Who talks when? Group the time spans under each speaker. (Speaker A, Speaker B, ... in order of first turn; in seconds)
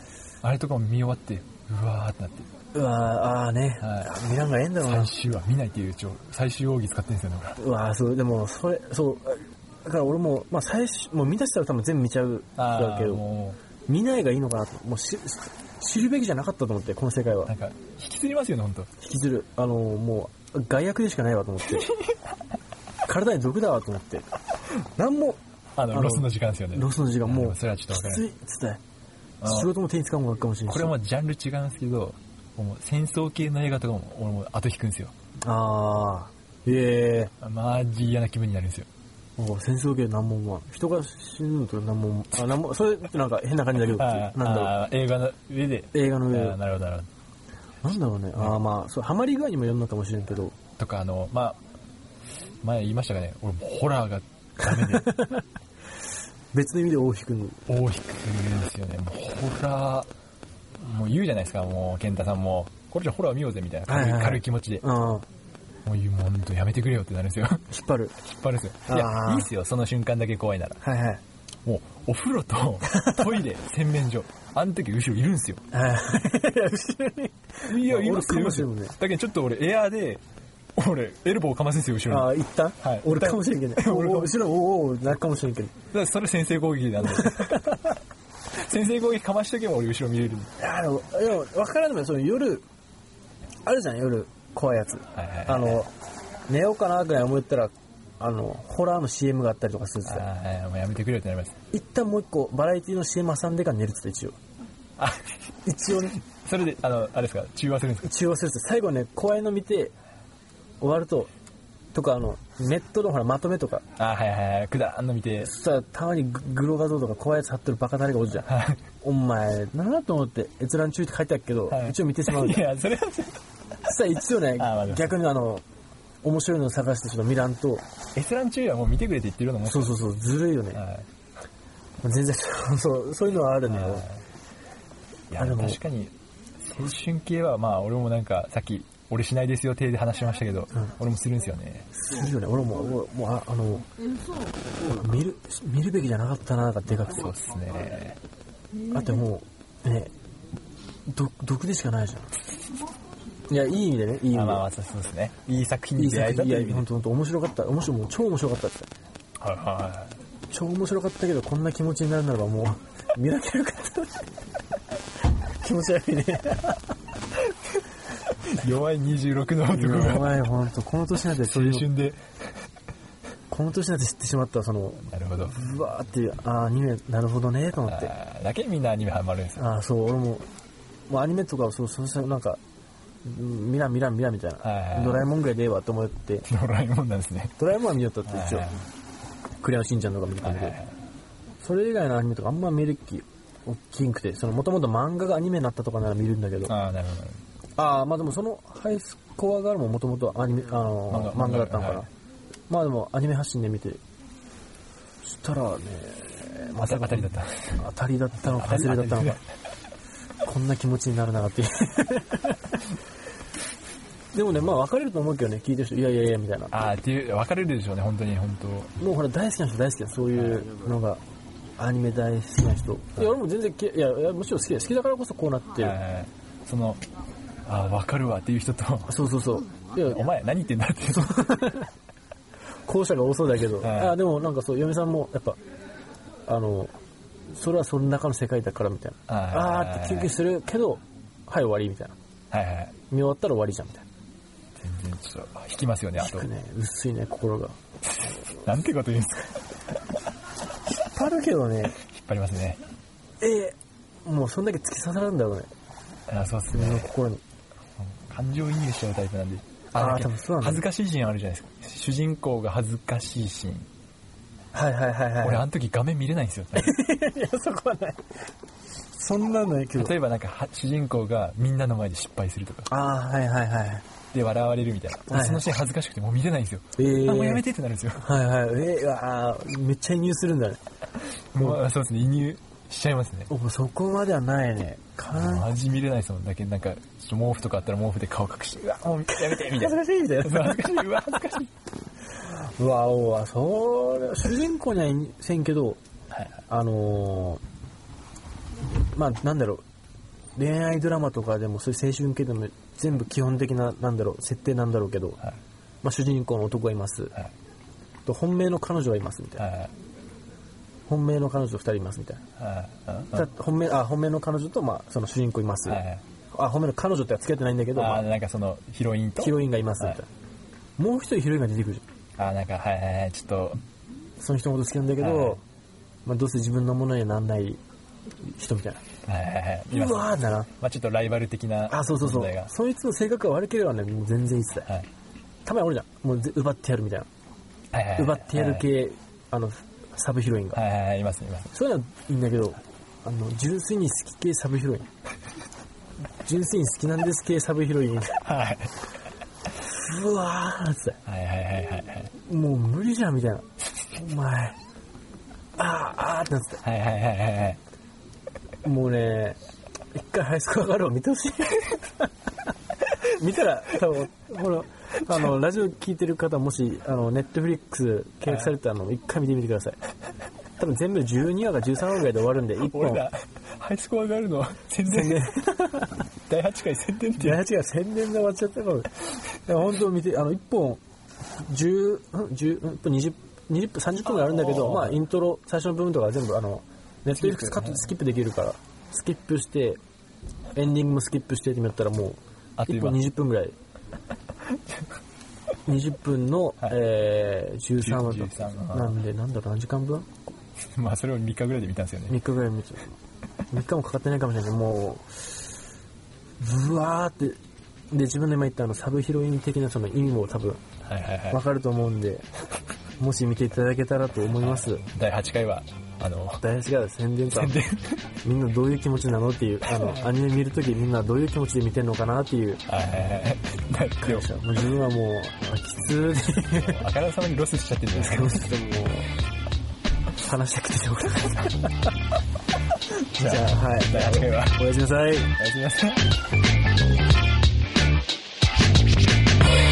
Speaker A: 0.4-2.5, 3.8-4.1, 4.8-7.6, 12.6-13.6, 17.5-18.9, 21.7-22.2, 25.8-28.2, 29.4-29.7, 30.7-35.1, 37.4-38.9, 43.8-47.1, 48.4-48.6, 50.8-51.6, 52.6-55.1, 57.7-60.1, 60.8-64.8, 65.8-67.7, 68.2-70.8, 71.7-75.6, 77.7-80.2, 80.8-84.4, 85.9-87.7, 88.5-90.5, 95.2-95.9, 100.0-101.6, 105.0-105.4, 106.1-108.1, 114.0-115.5, 118.5-118.8, 121.7-123.4, 124.6-125.2, 128.2-130.0, 130.7-131.1, 133.7-134.2, 135.3-141.9, 147.0-148.2, 154.3-156.9, 159.4-160.1, 168.5-170.5, 171.3-172.2, 175.1-175.6, 177.9-179.6, 184.6-185.3, 186.5-187.6, 188.3-188.9, 190.4-191.0, 196.7-197.4, 201.1-202.1, 206.8-207.8, 208.4-209.4, 216.7-218.9, 220.3-220.7, 225.8-227.0, 227.7-229.2, 230.1-231.4, 233.8-234.2, 239.3-240.3, 242.5-242.9, 244.8-246.5, 248.1-249.7, 252.0-252.8, 256.3-257.1, 258.0-263.9, 265.4-266.9, 269.9-272.9, 274.3-278.3, 281.5-283.5, 285.3-291.7, 309.6-309.9, 312.6-313.5, 315.9-316.2, 317.9-320.2, 322.4-323.8, 325.2-325.6, 329.3-332.7, 337.9-338.9, 340.7-341.7, 348.4-348.9, 351.3-352.3, 356.8-357.8, 372.8-375.6, 376.5-377.6, 384.2-385.2, 387.4-388.1, 392.8-393.2, 398.0-399.2, 400.8-402.4, 411.1-411.6, 414.6-416.6, 417.5-418.3, 419.9-420.2, 422.9-424.5, 426.8-428.6, 433.3-434.8, 435.6-436.3
Speaker B: 2.7-5.1, 7.6-13.2, 13.9-17.5, 19.0-21.9, 23.1-25.4, 25.9-28.8, 29.4-30.9, 35.4-37.3, 39.4-44.8, 45.9-46.6, 47.8-50.6, 54.8-55.4, 56.5-57.6, 63.9-65.3, 67.7-68.2, 68.9-69.5, 70.8-71.2, 72.9-73.3, 75.7-79.0, 82.1-85.7, 87.1-88.0, 90.6-92.6, 93.7-95.9, 96.5-100.3, 101.7-104.4, 105.7-106.2, 108.0-109.9, 110.8-111.3, 111.9-113.8, 115.4-122.7, 123.8-125.6, 126.2-127.8, 129.7-130.8, 132.0-134.1, 135.4-135.8, 141.9-143.9, 144.9-147.3, 148.9-150.1, 151.1-152.3, 153.5-154.7, 156.0-158.9, 160.5-164.3, 165.6-166.8, 169.7-171.9, 173.5-178.1, 179.6-180.5, 181.1-182.6, 183.2-186.5, 187.6-188.7, 189.6-190.8, 191.6-196.8, 197.8-202.1, 202.7-204.0, 205.2-209.4, 210.4-212.8, 214.3-216.7, 219.0-221.2, 221.8-226.0, 229.1-230.2, 231.1-231.9, 232.9-235.6, 236.5-236.9, 237.5-242.2, 243.1-244.1, 246.2-247.8, 250.9-252.0, 253.4-255.7, 256.7-257.4, 259.9-260.9, 264.7-265.7, 266.8-268.3, 269.1-270.1, 272.9-274.1, 275.3-275.7, 277.0-277.6, 278.2-280.8, 283.5-285.7, 289.3-291.1, 292.4-296.0, 296.7-297.6, 299.1-299.8, 300.6-305.4, 306.0-307.4, 308.3-309.6, 311.1-312.4, 313.3-318.3, 319.4-320.3, 321.0-322.0, 324.4-325.6, 326.2-327.8, 328.5-329.0, 329.9-330.7, 331.9-334.9, 335.6-337.3, 338.2-340.8, 341.7-345.1, 346.4-348.4, 349.8-351.2, 352.4-354.8, 355.8-356.8, 358.8-359.6, 360.1-362.3, 363.3-370.0, 370.8-373.3, 375.1-376.2, 377.4-379.1, 379.6-381.0, 381.6-390.0, 390.8-393.8, 395.9-400.3, 402.3-403.1, 403.7-405.6, 406.6-407.6, 408.1-410.8, 411.5-412.5, 413.2-415.1, 416.6-417.8, 418.4-422.8, 424.2-427.0, 428.1-429.3, 430.4-431.9, 433.4-435.5